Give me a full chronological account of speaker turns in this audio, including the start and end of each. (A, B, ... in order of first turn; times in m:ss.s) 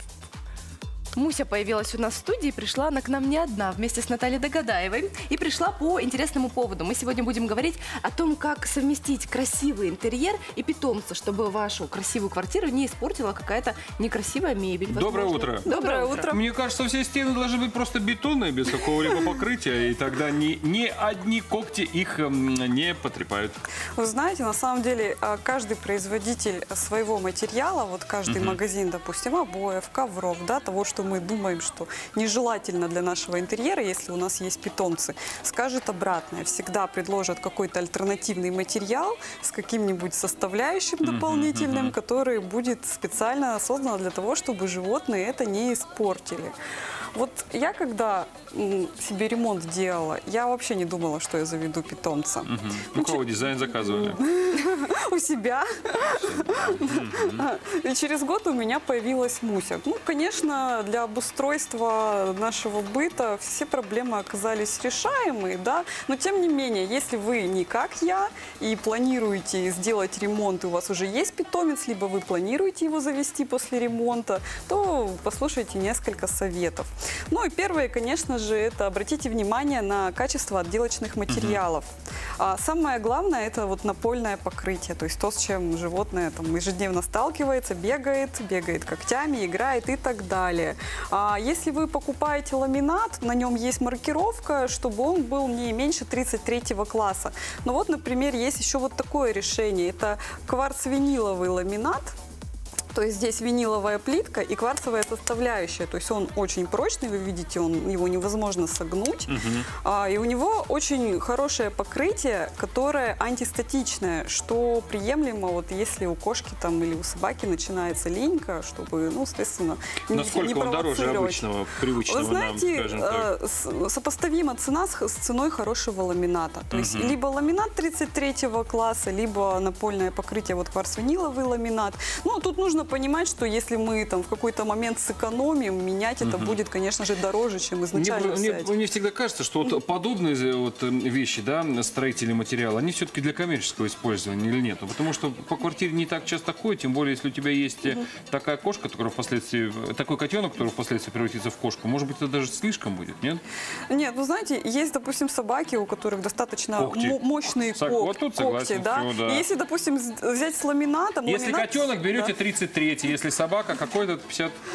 0:01.1-0:16.4 A
0:14.9-0:15.7 B
0:15.6-0:16.4 C
0:16.3-0:23.6 B
0:24.0-0:46.5 C
0:28.3-0:28.6 B
0:41.0-0:42.0 B
0:47.1-1:42.1 C
0:52.4-0:54.2 B
0:56.0-0:57.5 B
1:21.3-1:21.6 B
1:42.9-2:01.4 C
1:49.3-1:49.7 B
2:00.1-2:03.3 B
2:02.0-2:18.7 C
2:06.7-2:07.2 B
2:16.2-2:16.6 B
2:17.9-2:33.4 B
2:33.9-2:42.3 C
2:36.8-2:37.2 B
2:37.7-2:39.5 B
2:41.2-2:44.6 B